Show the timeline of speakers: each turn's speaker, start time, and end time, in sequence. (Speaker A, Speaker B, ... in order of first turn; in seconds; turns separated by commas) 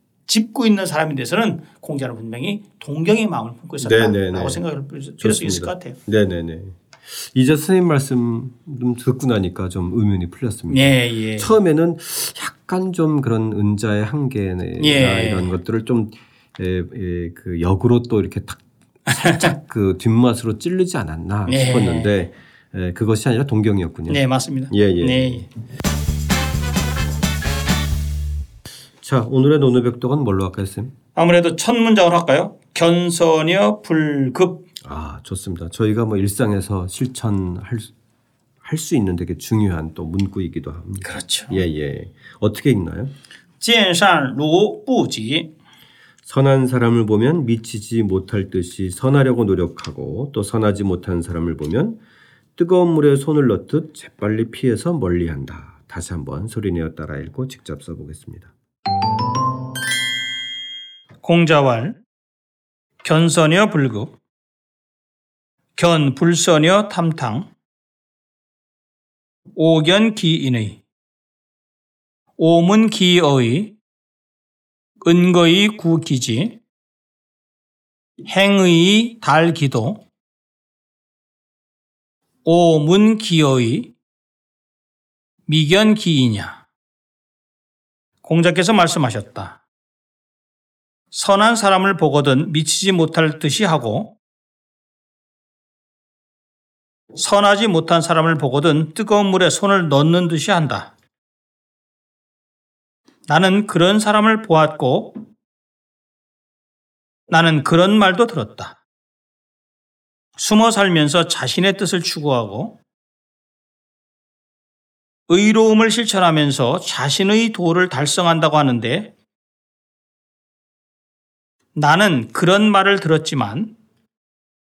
Speaker A: 0.3-6.0, Speaker B: 3.8-4.6, Speaker B: 5.2-18.6, Speaker A: 10.7-11.5, Speaker A: 14.8-15.5, Speaker A: 19.1-19.5, Speaker B: 19.4-25.4, Speaker A: 21.5-22.1, Speaker A: 24.1-25.5, Speaker B: 29.0-30.9, Speaker A: 31.1-34.6, Speaker B: 34.8-37.9, Speaker B: 38.6-43.1, Speaker A: 41.0-41.6, Speaker A: 43.6-45.5, Speaker B: 46.2-52.0, Speaker B: 52.5-58.5, Speaker A: 61.2-62.0, Speaker A: 63.0-64.1, Speaker A: 65.8-67.5, Speaker A: 69.5-70.8, Speaker A: 72.4-73.7, Speaker A: 75.0-76.6, Speaker A: 78.2-80.0, Speaker A: 82.4-83.9, Speaker A: 85.5-86.6, Speaker A: 88.2-89.6, Speaker A: 91.1-94.1, Speaker A: 97.1-100.9, Speaker A: 103.3-105.2, Speaker A: 107.3-108.8, Speaker A: 110.4-112.8, Speaker A: 115.3-119.1, Speaker A: 121.7-123.7